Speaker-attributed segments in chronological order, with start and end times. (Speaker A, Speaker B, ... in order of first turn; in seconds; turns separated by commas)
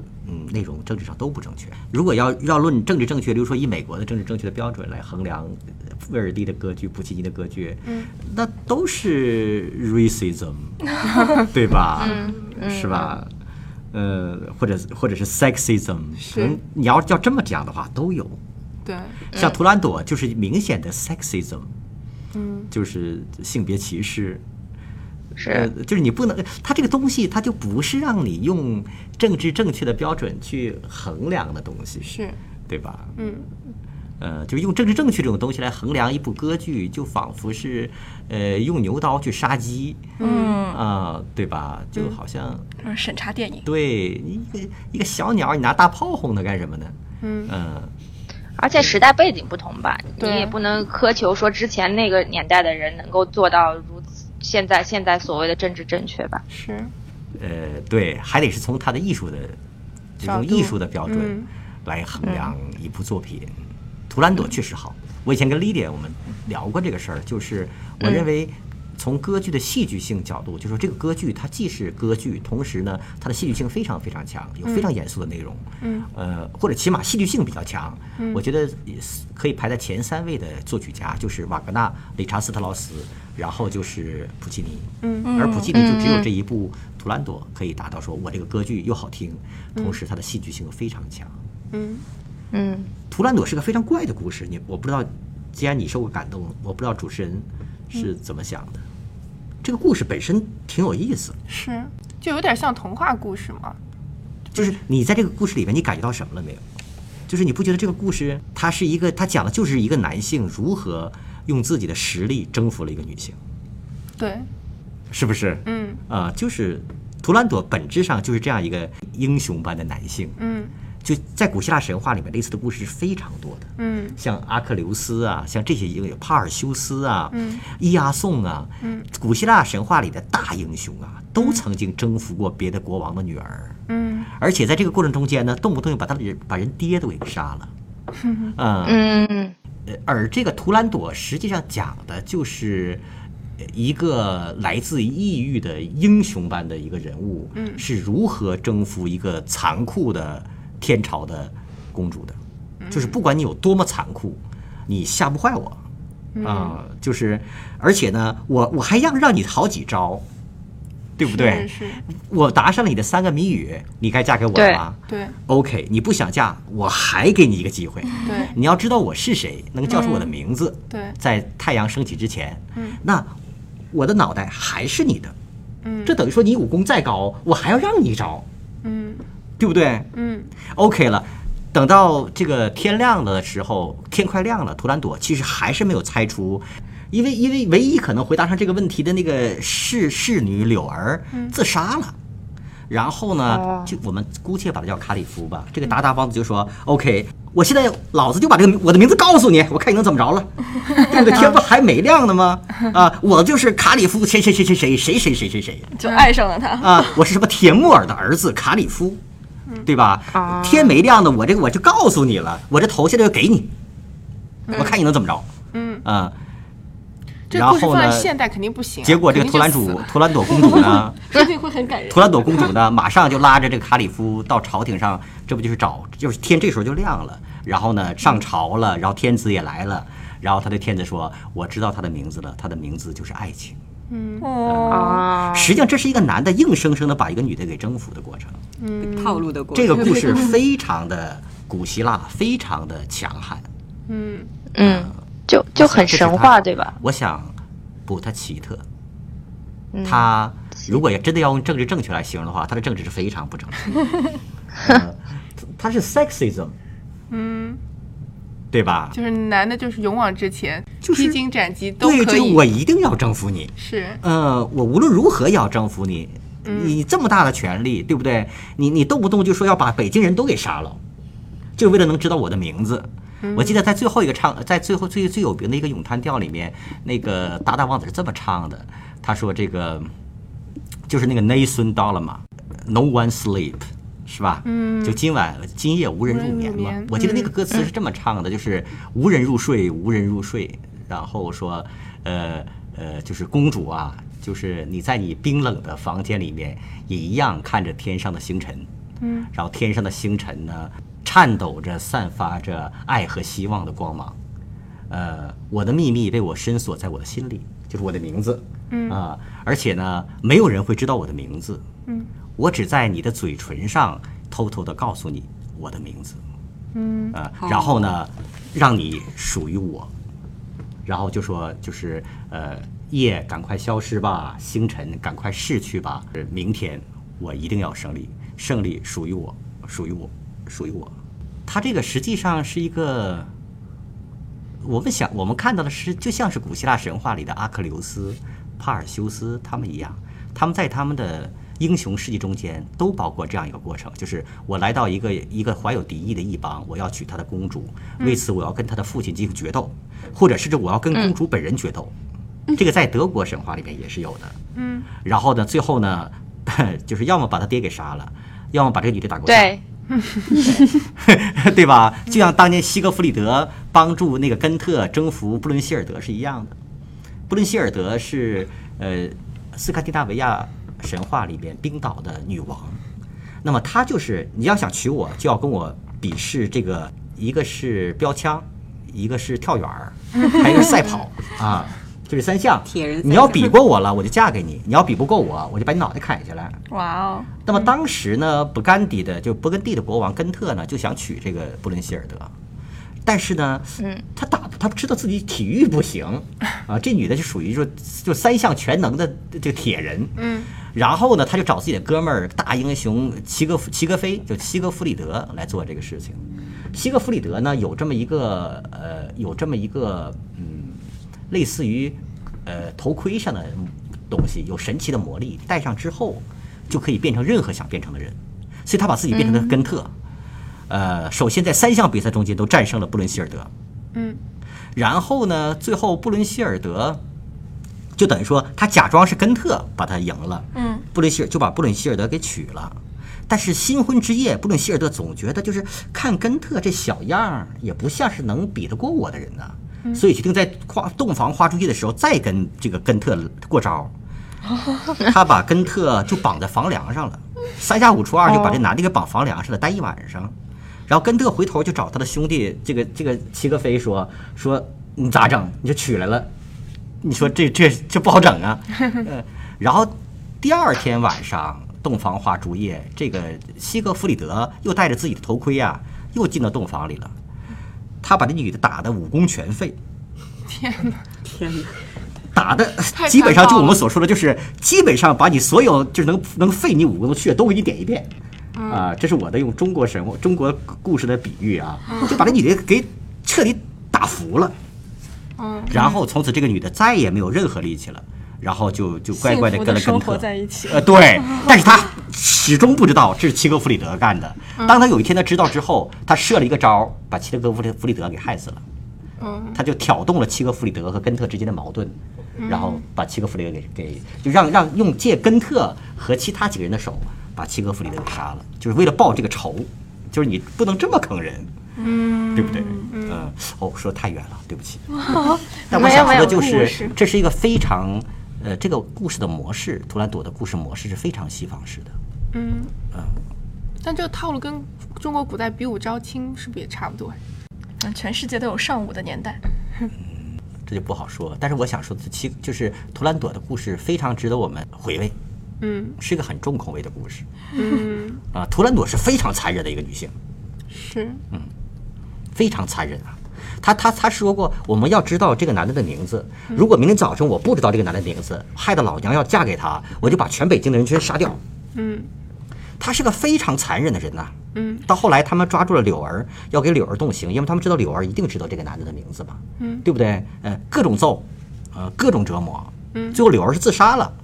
Speaker A: 0.2-13.3, Speaker B: 7.8-8.1, Speaker C: 12.0-13.2, Speaker A: 13.9-18.4, Speaker B: 16.2-16.6, Speaker B: 18.8-19.2, Speaker C: 19.3-19.6, Speaker A: 19.3-21.7, Speaker B: 22.3-22.7, Speaker A: 22.7-24.4, Speaker C: 25.4-25.7, Speaker A: 25.5-33.3, Speaker B: 32.0-32.4, Speaker B: 33.2-33.5, Speaker A: 34.2-40.1, Speaker B: 40.2-40.6, Speaker D: 40.2-40.8, Speaker A: 40.7-42.6, Speaker D: 42.8-43.7, Speaker A: 43.6-47.0, Speaker B: 47.2-47.5, Speaker A: 47.5-47.9, Speaker C: 48.6-56.4, Speaker A: 48.7-49.1, Speaker B: 50.2-50.6, Speaker B: 56.5-56.9, Speaker A: 57.4-59.6, Speaker A: 60.2-63.6, Speaker B: 60.2-61.5, Speaker C: 62.2-62.5, Speaker A: 64.1-91.3, Speaker B: 75.8-76.1, Speaker B: 85.0-85.5, Speaker D: 85.2-85.7, Speaker C: 85.7-86.3, Speaker B: 91.7-92.0, Speaker C: 92.5-92.9, Speaker A: 93.1-98.8, Speaker A: 99.6-101.4, Speaker B: 101.5-103.8, Speaker A: 104.5-106.6, Speaker A: 107.3-113.4, Speaker B: 114.2-114.5, Speaker A: 115.1-120.4, Speaker B: 115.7-116.0, Speaker B: 120.4-120.7, Speaker A: 121.0-133.8, Speaker B: 123.8-124.2, Speaker B: 127.3-127.6, Speaker B: 128.8-129.1, Speaker B: 133.9-134.3, Speaker A: 134.3-137.7, Speaker B: 138.2-138.5, Speaker A: 138.6-139.1, Speaker C: 138.8-139.5, Speaker A: 139.8-143.0, Speaker A: 143.6-152.4, Speaker B: 147.6-147.8, Speaker B: 152.8-153.2, Speaker A: 152.9-155.8, Speaker B: 156.3-156.8, Speaker A: 156.4-160.2, Speaker A: 161.2-173.3, Speaker B: 161.3-162.0, Speaker C: 164.6-164.8, Speaker B: 165.1-165.3, Speaker B: 168.2-168.6, Speaker B: 169.9-170.3, Speaker B: 170.9-171.2, Speaker A: 173.9-175.3, Speaker B: 175.8-176.2, Speaker A: 176.0-178.4, Speaker B: 178.8-179.2, Speaker A: 179.6-180.1, Speaker B: 180.1-180.5, Speaker A: 180.6-192.2, Speaker A: 192.9-205.9, Speaker C: 193.5-193.9, Speaker B: 201.1-201.6, Speaker D: 205.9-207.2, Speaker A: 206.8-209.2, Speaker A: 209.8-213.7, Speaker C: 210.3-211.0, Speaker C: 214.7-214.9, Speaker A: 214.7-215.5, Speaker B: 215.7-216.1, Speaker A: 216.0-216.3, Speaker B: 217.5-220.2, Speaker A: 217.5-218.3, Speaker A: 219.0-221.2, Speaker B: 220.7-220.9, Speaker D: 221.3-222.7, Speaker A: 222.1-233.8, Speaker B: 234.1-234.5, Speaker D: 234.4-235.2, Speaker A: 234.6-238.6, Speaker C: 234.9-235.8, Speaker B: 238.8-239.5, Speaker E: 239.0-240.5, Speaker A: 239.7-243.7, Speaker B: 244.1-244.5, Speaker C: 244.7-246.9, Speaker A: 244.8-245.2, Speaker A: 245.7-247.6, Speaker A: 248.1-248.8, Speaker C: 249.9-250.3, Speaker A: 250.0-254.0, Speaker A: 254.8-256.8, Speaker B: 257.3-257.8, Speaker A: 258.7-259.2, Speaker B: 259.1-262.6, Speaker A: 261.0-261.4, Speaker A: 262.0-271.0, Speaker B: 263.8-264.2, Speaker B: 266.7-266.9, Speaker A: 271.8-280.1, Speaker B: 273.4-273.8, Speaker A: 281.1-298.9, Speaker B: 284.6-285.2, Speaker B: 286.3-287.5, Speaker B: 299.2-299.5, Speaker A: 299.5-304.4, Speaker A: 305.1-311.8, Speaker B: 308.9-309.2, Speaker A: 312.6-316.4, Speaker B: 316.9-317.4, Speaker A: 317.3-320.1, Speaker E: 317.6-318.1, Speaker A: 321.1-331.1, Speaker A: 331.7-333.5, Speaker A: 334.8-352.1, Speaker A: 352.7-354.6, Speaker B: 354.8-355.1, Speaker A: 355.2-359.7, Speaker C: 359.5-359.8, Speaker A: 361.1-366.8, Speaker A: 367.5-373.0, Speaker A: 373.6-386.8, Speaker B: 380.4-380.7, Speaker E: 382.9-383.8, Speaker D: 386.9-387.5, Speaker A: 387.7-392.5, Speaker A: 393.2-420.1, Speaker C: 394.0-394.2, Speaker B: 400.4-400.7, Speaker C: 419.3-419.8, Speaker A: 420.9-423.7, Speaker B: 424.1-424.4, Speaker A: 424.9-427.2, Speaker A: 428.2-444.1, Speaker D: 430.7-431.1, Speaker A: 445.2-450.6, Speaker C: 448.5-448.8, Speaker A: 451.1-456.5, Speaker A: 457.2-467.3, Speaker A: 468.2-470.0, Speaker B: 470.7-471.2, Speaker E: 471.4-471.9, Speaker A: 472.5-478.3, Speaker B: 473.2-473.9, Speaker B: 478.8-479.1, Speaker A: 478.9-484.7, Speaker B: 482.1-482.4, Speaker B: 485.6-486.2, Speaker A: 485.9-498.8, Speaker D: 489.3-491.7, Speaker B: 499.4-499.8, Speaker A: 499.7-511.7, Speaker B: 502.6-503.0, Speaker B: 512.0-513.5, Speaker A: 512.5-515.1, Speaker D: 515.2-517.1, Speaker A: 515.9-522.1, Speaker C: 515.9-516.9, Speaker B: 522.5-522.9, Speaker A: 523.1-523.4, Speaker B: 524.0-527.4, Speaker D: 528.0-529.6, Speaker A: 530.1-535.4, Speaker B: 535.8-536.2, Speaker A: 536.2-537.5, Speaker B: 537.7-538.4, Speaker A: 538.5-540.3, Speaker B: 540.9-541.4, Speaker A: 542.5-551.6, Speaker B: 551.9-552.3, Speaker A: 553.0-564.4, Speaker B: 554.7-555.1, Speaker B: 559.8-560.1, Speaker B: 563.1-563.4